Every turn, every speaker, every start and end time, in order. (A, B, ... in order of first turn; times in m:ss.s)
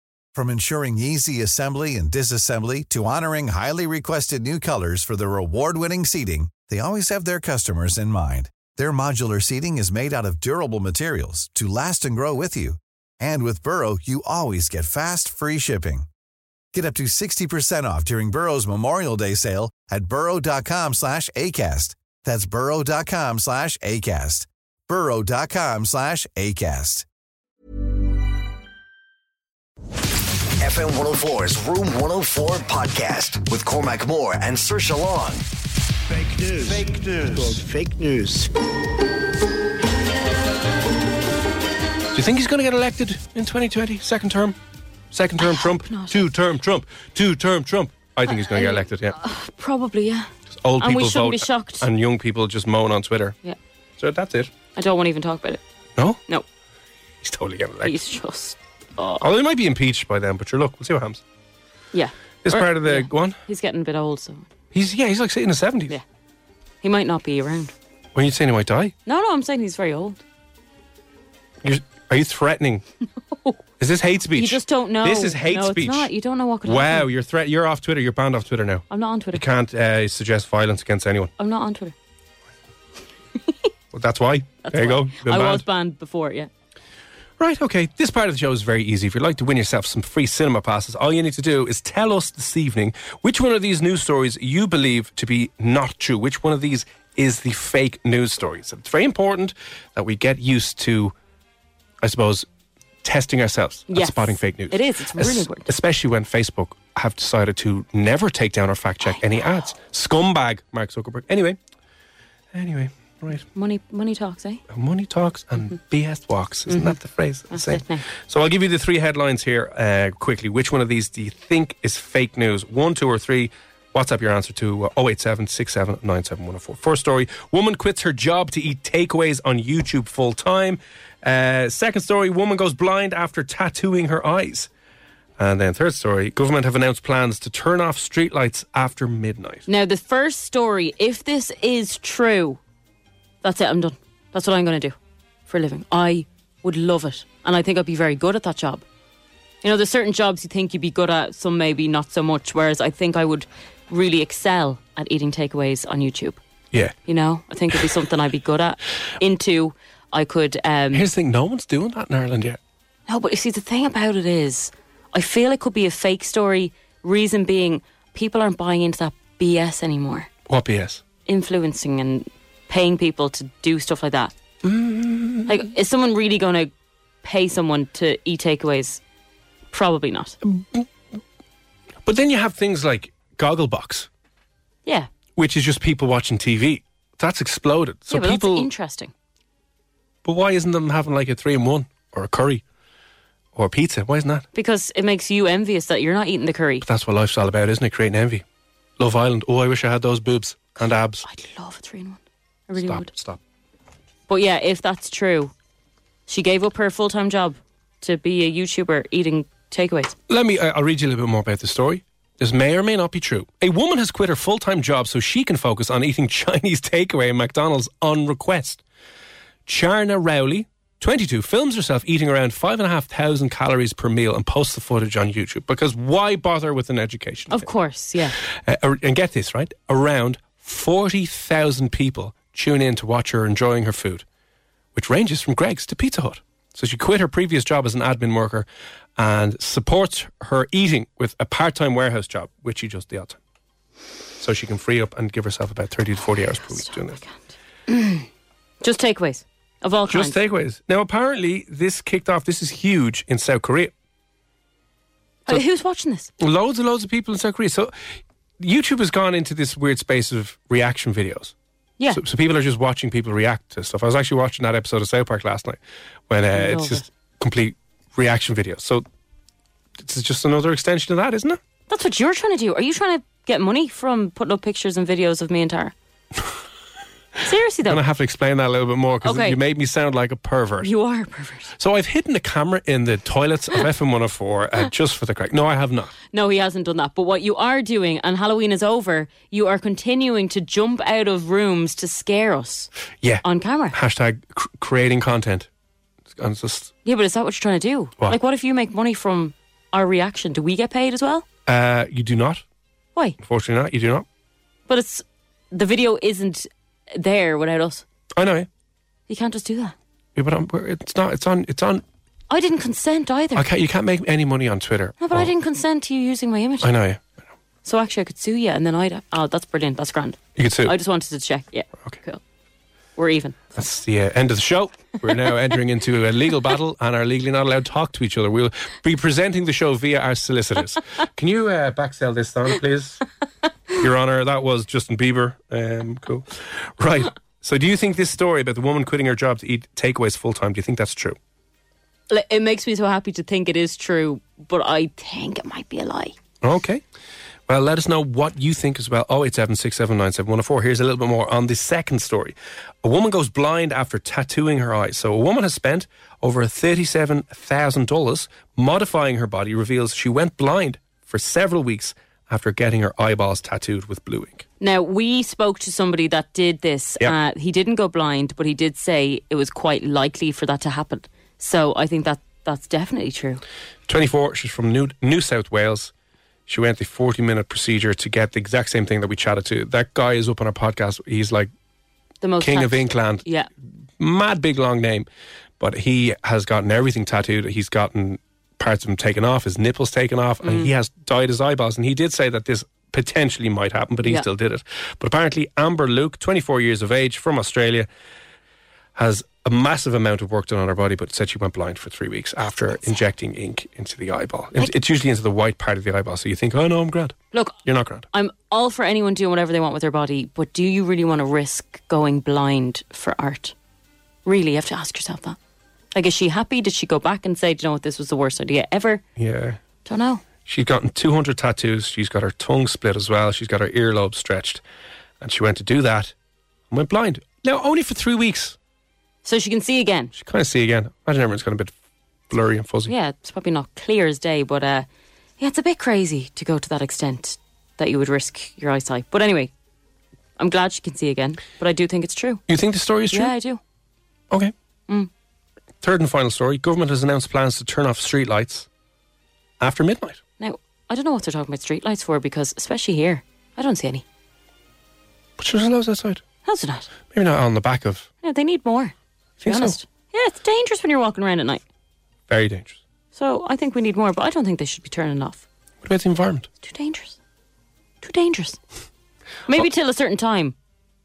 0:00.3-0:16.1 A
0:16.7-0:27.0 A
0:30.6-0:35.4 B
0:36.1-0:38.5 C
0:42.1-0:44.6 D
0:45.1-0:49.2 D
0:45.4-0:46.3 E
0:48.2-0:51.9 E
0:50.6-0:53.4 D
0:54.0-0:54.5 D
0:54.7-0:55.6 E
0:57.2-0:58.0 D
0:57.8-0:59.2 E
0:59.2-1:01.2 D
1:01.9-1:04.4 E
1:02.4-1:03.4 D
1:04.7-1:06.0 D
1:06.8-1:07.7 E
1:08.1-1:08.9 D
1:09.0-1:10.2 E
1:11.6-1:12.8 D
1:13.8-1:16.1 D
1:14.3-1:17.1 E
1:16.6-1:21.3 D
1:18.9-1:19.4 E
1:21.4-1:21.9 E
1:23.9-1:25.6 D
1:24.6-1:26.5 E
1:27.4-1:41.1 D
1:42.0-1:42.5 D
1:43.0-1:51.6 D
1:43.9-1:45.7 E
1:52.5-1:53.4 D
1:53.5-1:54.6 E
1:54.7-2:14.7 D
1:56.7-1:57.0 E
1:57.5-1:58.0 E
2:15.4-2:19.6 D
2:19.7-2:22.6 E
2:23.4-2:25.0 E
2:25.5-2:28.8 E
2:29.6-2:36.4 E
2:37.0-2:41.0 E
2:40.9-2:42.6 D
2:43.1-2:50.3 E
2:50.5-2:51.0 D
2:51.2-2:54.3 E
2:54.6-2:55.6 D
2:55.5-2:56.7 E
2:57.2-2:59.0 E
2:59.7-3:00.4 E
3:00.4-3:00.8 D
3:02.0-3:04.1 D
3:04.8-3:05.1 E
3:05.4-3:08.7 D
3:08.1-3:09.1 E
3:10.2-3:12.6 D
3:13.5-3:14.4 D
3:14.5-3:16.8 E
3:16.8-3:18.4 D
3:19.0-3:21.2 D
3:21.2-3:23.1 E
3:22.8-3:23.4 D
3:24.3-3:25.5 E
3:26.3-3:30.2 E
3:30.3-3:38.8 D
3:39.6-3:47.7 D
3:47.5-3:48.4 E
3:48.5-3:54.2 D
3:54.9-3:58.6 D
3:59.2-4:03.4 D
4:04.4-4:07.2 D
4:06.8-4:08.2 E
4:08.8-4:10.4 E
4:10.1-4:13.9 D
4:15.4-4:16.3 E
4:16.4-4:17.9 D
4:18.6-4:21.5 D
4:22.1-4:25.8 D
4:26.3-4:29.0 D
4:26.5-4:27.0 E
4:30.0-4:31.6 D
4:31.9-4:35.9 E
4:37.4-4:38.0 E
4:37.8-4:40.9 D
4:39.2-4:39.6 E
4:40.8-4:41.7 E
4:41.8-4:46.1 D
4:46.3-4:52.9 E
4:53.2-4:55.7 D
4:53.4-4:54.0 E
4:56.3-4:56.9 D
4:57.0-5:01.4 E
5:01.7-5:02.6 D
5:03.4-5:04.2 D
5:04.9-5:08.0 E
5:08.4-5:08.7 D
5:09.3-5:09.9 E
5:10.4-5:12.0 D
5:12.5-5:13.6 E
5:13.5-5:15.5 D
5:15.2-5:16.9 E
5:16.8-5:17.2 D
5:17.8-5:22.4 E
5:20.6-5:20.9 D
5:23.2-5:23.7 E
5:23.8-5:33.2 D
5:33.9-5:41.4 D
5:42.3-5:46.4 E
5:46.6-5:47.0 D
5:47.7-6:04.6 D
6:04.8-6:13.6 E
6:14.1-6:16.1 D
6:16.7-6:21.7 D
6:22.4-6:23.7 E
6:22.6-6:23.4 D
6:24.2-6:25.3 D
6:25.8-6:38.1 D
6:30.6-6:30.9 E
6:39.1-6:48.3 D
6:47.5-6:47.8 E
6:48.3-6:53.7 E
6:54.4-6:55.6 E
6:56.1-6:59.2 E
6:59.4-6:59.8 D
7:00.0-7:00.4 E
7:00.6-7:04.8 D
7:05.4-7:06.3 D
7:06.9-7:08.8 D
7:09.4-7:10.3 E
7:10.3-7:11.9 D
7:12.5-7:13.1 D
7:13.1-7:15.1 E
7:15.6-7:19.7 E
7:20.6-7:22.6 E
7:22.7-7:23.5 D
7:23.3-7:23.8 E
7:26.0-7:28.9 D
7:29.8-7:30.4 D
7:30.6-7:34.2 E
7:35.6-7:36.4 D
7:36.6-7:37.1 E
7:37.3-7:38.3 D
7:38.4-7:39.1 E
7:39.6-7:40.0 D
7:39.6-7:41.8 E
7:42.5-7:43.0 D
7:43.3-7:45.6 E
7:46.0-7:46.7 D
7:46.8-7:47.4 E
7:48.2-7:48.8 E
7:49.7-7:50.7 E